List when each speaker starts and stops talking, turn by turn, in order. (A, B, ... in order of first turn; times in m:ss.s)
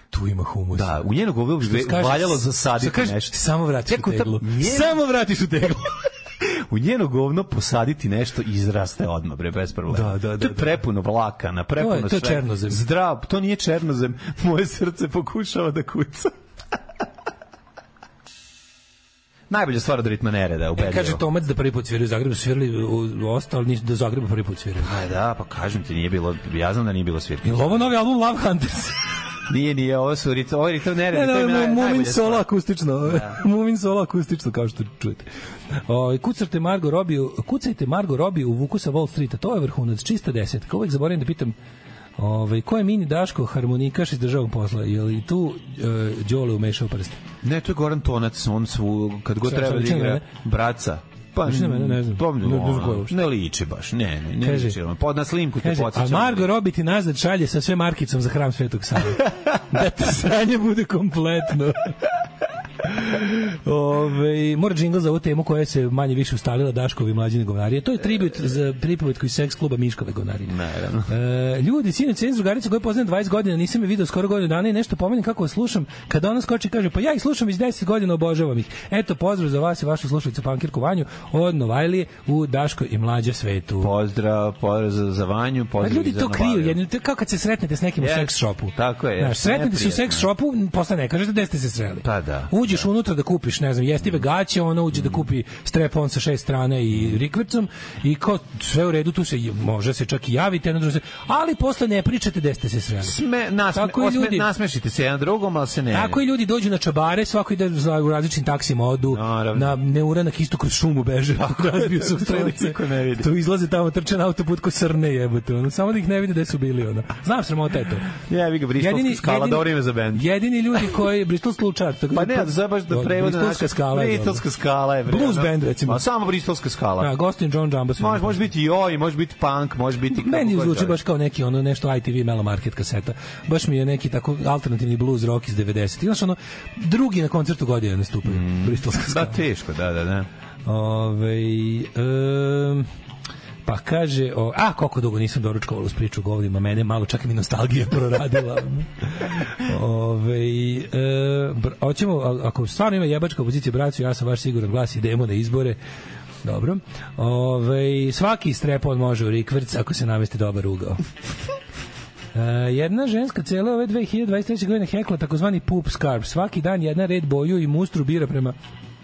0:00.1-0:01.0 A
0:00.7-0:05.0 B
0:01.6-0:05.9 A
0:06.4-0:16.3 B
0:09.9-0:10.8 A
0:11.8-0:12.8 A
0:19.5-0:21.2 B
0:20.8-0:24.9 A
0:24.8-0:27.9 B
0:27.4-0:29.0 A
0:29.5-0:32.5 B
0:31.1-0:35.3 A
0:33.0-0:33.4 B
0:35.8-0:41.5 A
0:42.2-0:47.2 A
0:47.4-0:56.5 B
0:49.4-0:50.2 A
0:51.4-0:53.2 A
0:54.4-0:54.8 A
0:55.6-1:01.9 A
0:59.2-0:59.5 B
1:02.8-1:10.5 A
1:10.4-1:11.1 B
1:11.1-1:23.9 A
1:23.8-1:26.8 B
1:25.8-1:43.2 A
1:28.0-1:30.3 B
1:32.0-1:32.9 B
1:34.9-1:35.2 B
1:36.9-1:37.2 B
1:43.0-1:46.2 B
1:43.7-1:44.5 A
1:45.9-1:58.1 A
1:49.1-1:49.8 B
1:51.3-1:53.3 B
1:58.2-2:00.2 B
1:58.8-2:04.4 A
2:02.1-2:07.1 B
2:05.1-2:06.0 A
2:07.0-2:08.5 A
2:08.0-2:11.0 B
2:10.1-2:19.4 A
2:18.2-2:20.3 B
2:20.6-2:22.9 A
2:23.6-2:35.8 A
2:36.4-2:41.0 A
2:42.3-2:48.5 A